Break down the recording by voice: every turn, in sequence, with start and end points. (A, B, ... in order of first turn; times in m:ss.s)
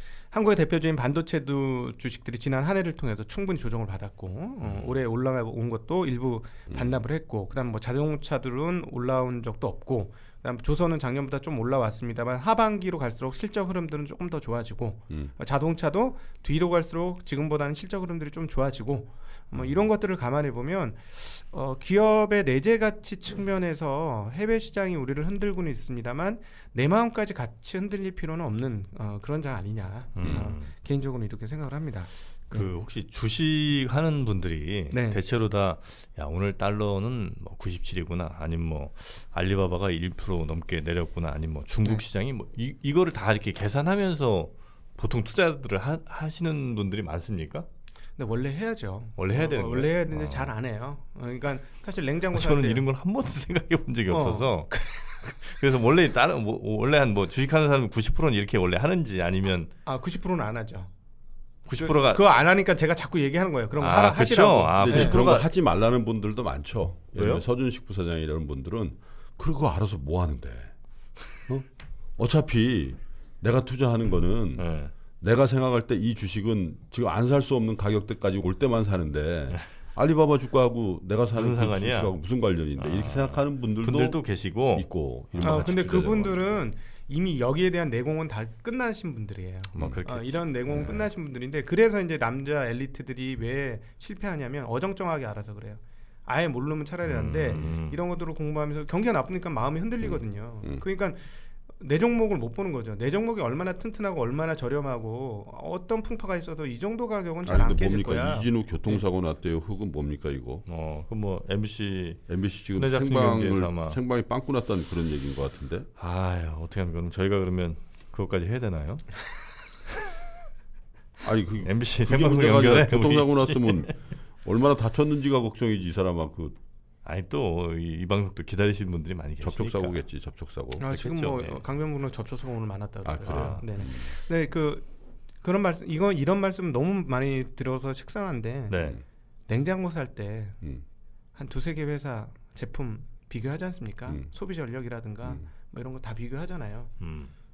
0:00.3-0:32.7 A
0:04.6-0:04.9 B
0:06.7-0:07.0 C
0:30.2-0:30.7 B
0:30.2-0:30.5 C
0:32.5-0:47.7 B
0:34.9-0:35.2 A
0:48.2-0:52.8 A
0:49.2-0:50.5 B
0:52.3-0:54.8 B
0:54.1-0:55.4 A
0:55.4-0:59.7 B
0:59.8-1:00.9 A
1:01.6-1:02.2 B
1:01.8-1:05.3 A
1:03.8-1:05.5 B
1:04.8-1:10.7 C
1:07.1-1:07.4 B
1:12.2-1:14.6 C
1:14.6-1:14.9 B
1:15.2-1:24.2 C
1:21.4-1:22.2 B
1:22.8-1:26.2 B
1:24.7-1:26.3 C
1:25.4-1:49.0 A
1:29.7-1:31.1 B
1:29.8-1:30.0 C
1:37.0-1:38.0 B
1:40.0-1:40.8 C
1:47.4-1:50.6 C
1:50.7-1:54.0 B
1:52.3-1:55.9 C
1:56.0-1:59.3 B
2:01.2-2:06.6 C
2:01.6-2:04.0 B
2:07.0-2:10.0 B
2:09.4-2:10.9 C
2:10.8-2:14.8 A
2:10.9-2:11.6 B
2:13.0-2:14.1 C
2:13.3-2:13.7 B
2:15.4-2:18.8 A
2:18.7-2:19.0 B
2:19.5-2:20.6 A
2:21.3-2:26.9 A
2:27.0-2:27.3 B